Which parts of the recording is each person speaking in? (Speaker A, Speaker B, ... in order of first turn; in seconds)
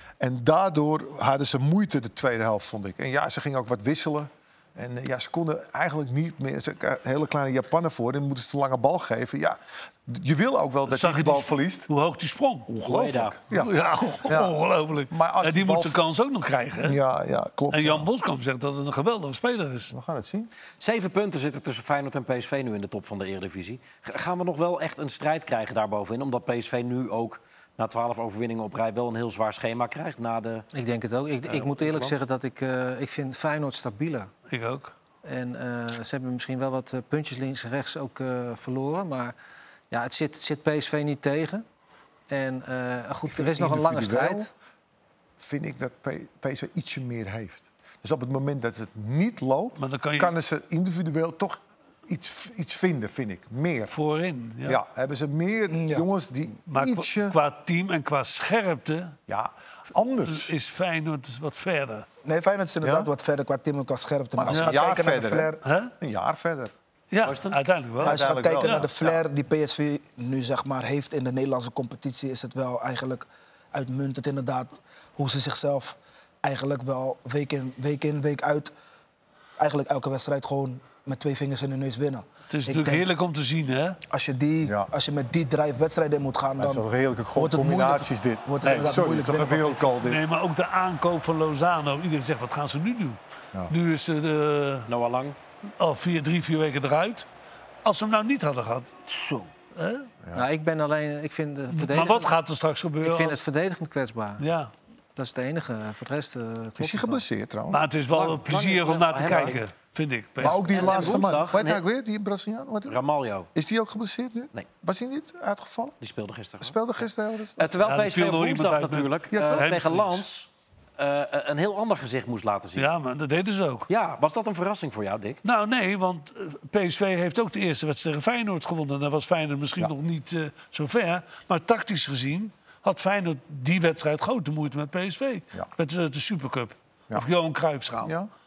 Speaker A: 0.2-11.9, 12.7-16.0, 16.8-18.1, 19.9-20.5, 43.3-44.5, 45.4-54.0, 54.6-57.4, 59.3-60.5, 62.8-63.1, 64.4-66.7, 68.0-69.2, 84.6-84.9, 86.6-90.2, 106.8-107.8, 110.4-113.0, 113.5-116.0, 116.6-117.7, 119.3-119.8, 138.0-138.3
Speaker B: 10.9-12.7, 13.5-17.0, 17.7-19.9, 34.5-34.9, 49.8-50.3, 53.9-54.8, 56.7-59.1, 60.2-62.1, 64.5-64.8, 65.6-65.9, 67.1-68.9, 82.5-84.0, 90.0-94.9, 95.8-97.2, 97.8-98.9, 99.7-100.1, 101.7-103.4, 104.4-104.7, 107.7-111.2, 117.8-120.2, 122.8-123.9, 125.4-138.1
Speaker C: 12.8-13.3, 20.8-30.6, 31.4-32.2, 67.2-67.6, 94.9-95.4, 108.1-109.6, 110.4-111.8, 112.9-113.5, 116.0-116.8, 117.6-122.9, 123.9-125.4
Speaker D: 30.7-34.3, 35.2-39.3, 39.9-41.6, 42.3-44.5, 100.3-102.3, 103.0-104.4, 105.2-107.2
Speaker E: 55.7-56.0, 62.2-65.6, 68.0-78.7, 79.6-83.0, 84.1-89.9, 99.1-99.5